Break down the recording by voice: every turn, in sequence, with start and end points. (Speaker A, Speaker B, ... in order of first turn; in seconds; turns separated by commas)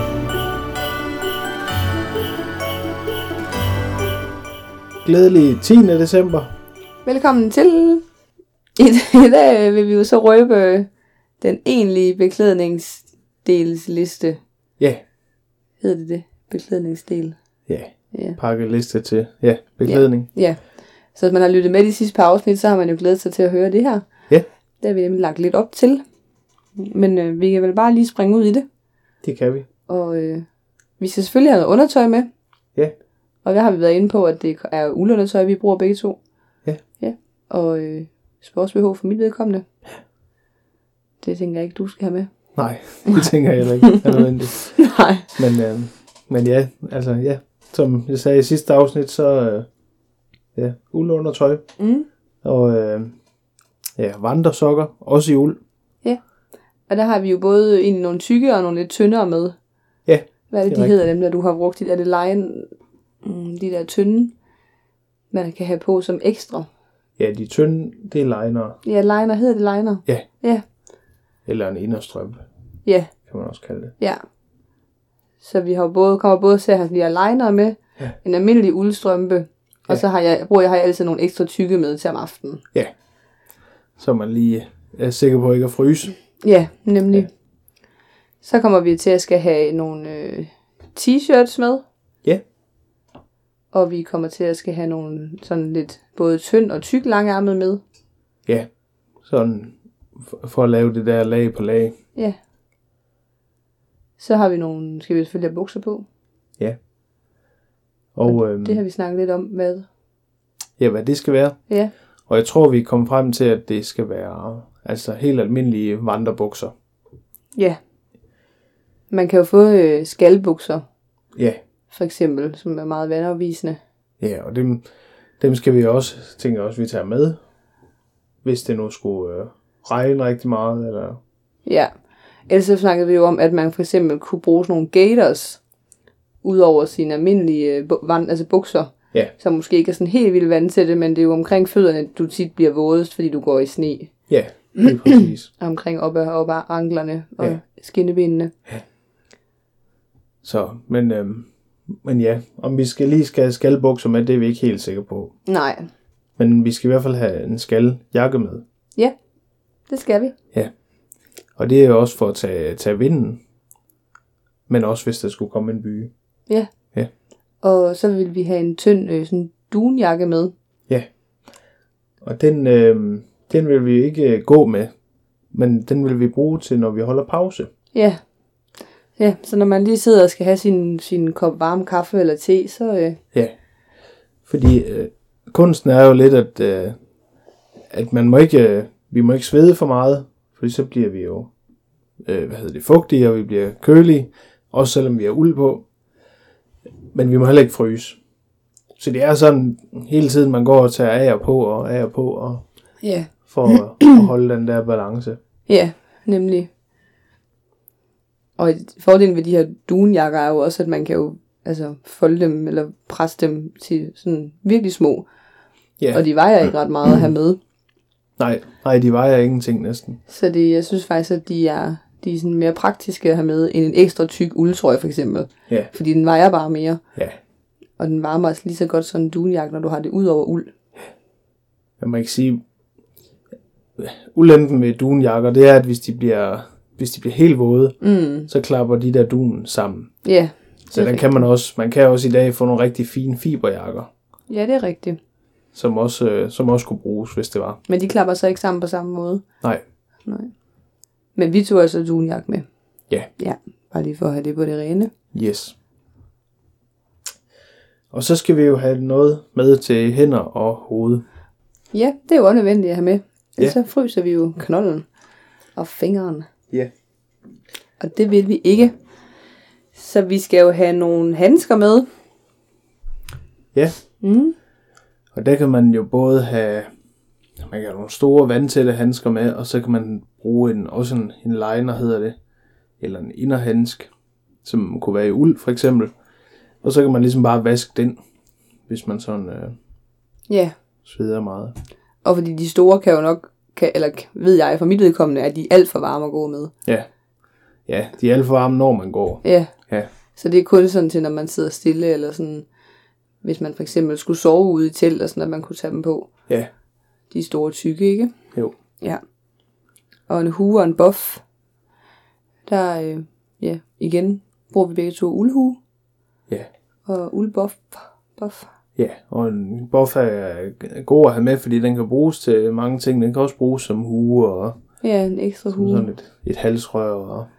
Speaker A: 5.0-6.5, Speaker B: 7.0-8.0, Speaker B: 8.8-10.9, Speaker B: 11.4-14.4, Speaker B: 15.8-17.4, Speaker A: 17.7-20.3, Speaker B: 18.1-18.4, Speaker B: 19.8-20.6, Speaker B: 21.1-24.0, Speaker B: 24.8-26.0, Speaker B: 26.8-28.6, Speaker A: 29.2-29.6, Speaker B: 29.9-30.4, Speaker B: 31.0-32.3, Speaker B: 33.4-36.2, Speaker B: 37.0-39.6, Speaker B: 41.2-42.3, Speaker A: 42.5-49.7, Speaker B: 43.9-44.2, Speaker B: 44.8-45.4, Speaker A: 50.5-51.6, Speaker B: 51.8-52.1, Speaker A: 52.4-53.1, Speaker A: 54.0-55.6, Speaker B: 56.9-59.5, Speaker A: 60.0-60.9, Speaker B: 60.5-62.7, Speaker B: 63.2-64.3, Speaker B: 65.3-66.7, Speaker A: 67.2-68.8, Speaker B: 68.8-70.6, Speaker A: 71.5-72.4, Speaker B: 72.8-73.1, Speaker A: 73.2-73.9, Speaker B: 75.4-82.6, Speaker A: 84.0-86.2, Speaker B: 86.4-87.3, Speaker B: 88.4-91.8, Speaker B: 93.7-97.8, Speaker A: 99.2-101.9, Speaker B: 104.2-106.0, Speaker A: 108.1-108.8, Speaker B: 108.3-109.8, Speaker A: 110.8-111.6, Speaker A: 112.3-116.7, Speaker B: 119.1-120.8, Speaker A: 121.3-121.6, Speaker B: 121.9-123.8, Speaker A: 124.2-124.8, Speaker A: 125.4-127.4, Speaker A: 128.4-131.2, Speaker B: 131.6-131.9, Speaker B: 132.5-135.6, Speaker B: 136.4-144.2, Speaker A: 144.3-145.5, Speaker B: 145.1-148.5, Speaker A: 150.4-155.3, Speaker B: 155.5-155.9, Speaker A: 156.4-158.6, Speaker B: 159.9-160.3, Speaker A: 161.6-163.4, Speaker A: 164.7-166.1, Speaker B: 167.6-170.5, Speaker A: 172.2-174.9, Speaker A: 175.5-177.7, Speaker B: 177.9-178.2, Speaker B: 179.2-183.2, Speaker A: 184.4-186.9, Speaker A: 187.9-191.5, Speaker A: 192.2-195.8, Speaker A: 197.1-198.2, Speaker A: 199.0-202.6, Speaker B: 203.0-204.1, Speaker A: 203.4-205.4, Speaker B: 205.7-206.7, Speaker B: 208.6-215.2, Speaker A: 216.0-216.2, Speaker B: 216.1-217.6, Speaker A: 218.4-220.2, Speaker B: 220.3-227.0, Speaker B: 228.0-230.7, Speaker A: 232.0-232.6, Speaker A: 233.9-240.1, Speaker B: 238.0-238.5, Speaker B: 240.2-241.4, Speaker A: 240.9-244.1, Speaker B: 244.5-245.2, Speaker A: 245.7-247.8, Speaker B: 247.9-249.4, Speaker B: 250.2-250.5, Speaker B: 251.3-252.6, Speaker B: 253.4-255.1, Speaker A: 255.3-255.7, Speaker A: 258.1-261.2, Speaker B: 261.9-265.0, Speaker B: 265.8-266.5, Speaker B: 268.0-268.9, Speaker B: 269.9-272.1, Speaker B: 274.2-274.5, Speaker A: 275.3-276.9, Speaker A: 277.6-282.3, Speaker A: 283.0-284.1, Speaker A: 284.6-286.1, Speaker A: 286.8-288.2, Speaker A: 288.9-289.7, Speaker B: 290.5-290.7, Speaker A: 291.0-291.7, Speaker B: 292.2-296.7, Speaker A: 297.9-300.1, Speaker B: 299.4-299.7, Speaker B: 300.3-302.6, Speaker B: 303.4-306.3, Speaker B: 307.3-308.3, Speaker B: 310.3-311.4, Speaker B: 312.7-315.8, Speaker B: 317.1-318.7, Speaker A: 319.0-324.8, Speaker B: 325.0-326.1, Speaker A: 325.7-327.5